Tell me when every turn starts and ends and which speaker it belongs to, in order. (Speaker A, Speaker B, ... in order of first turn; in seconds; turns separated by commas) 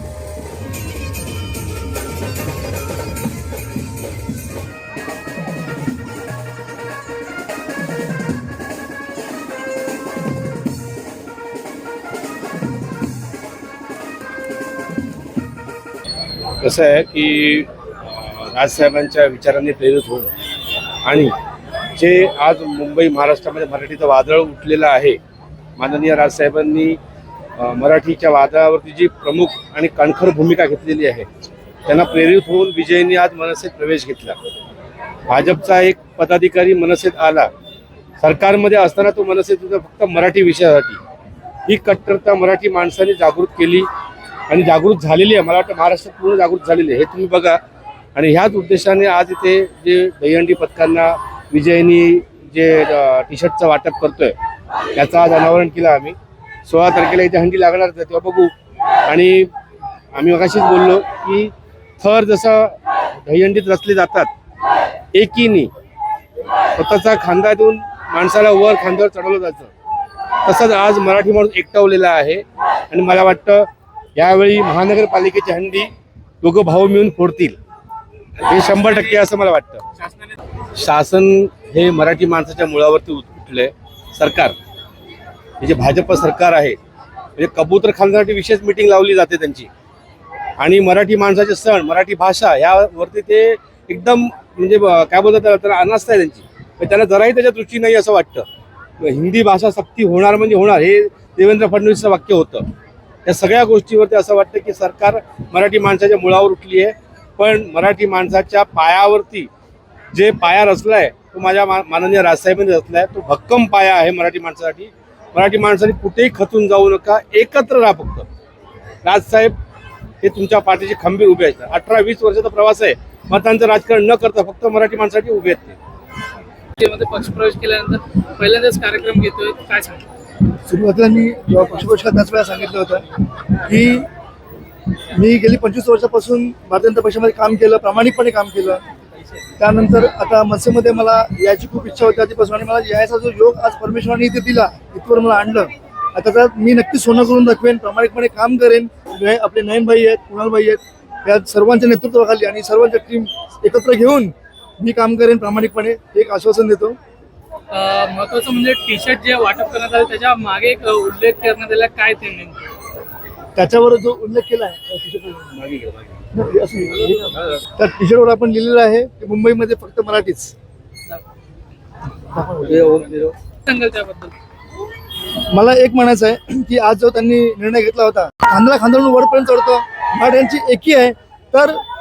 Speaker A: 16.6-20.3, Speaker A: 21.1-21.3, Speaker A: 21.9-25.2, Speaker A: 25.8-27.0, Speaker A: 27.6-31.3, Speaker A: 31.9-34.4, Speaker A: 35.3-37.5, Speaker A: 38.2-41.0, Speaker A: 41.7-43.9, Speaker A: 44.5-47.6, Speaker A: 48.1-54.4, Speaker A: 54.9-56.1, Speaker A: 56.7-58.5, Speaker A: 59.1-59.5, Speaker A: 60.1-64.3, Speaker A: 65.1-65.7, Speaker A: 66.8-69.7, Speaker A: 70.4-75.9, Speaker A: 76.4-77.6, Speaker A: 78.4-80.0, Speaker A: 80.8-84.5, Speaker A: 85.6-86.8, Speaker A: 87.3-89.7, Speaker A: 90.6-98.5, Speaker A: 99.0-102.7, Speaker A: 103.2-109.5, Speaker A: 110.1-118.3, Speaker A: 119.0-119.5, Speaker A: 120.2-125.8, Speaker B: 126.8-129.9, Speaker C: 130.7-134.1, Speaker C: 135.1-138.8, Speaker C: 139.6-157.0, Speaker B: 157.7-162.5, Speaker C: 163.6-165.7, Speaker A: 165.7-166.0, Speaker C: 166.3-170.6, Speaker C: 172.3-172.9, Speaker A: 172.6-173.4, Speaker B: 173.7-174.3, Speaker C: 175.5-181.8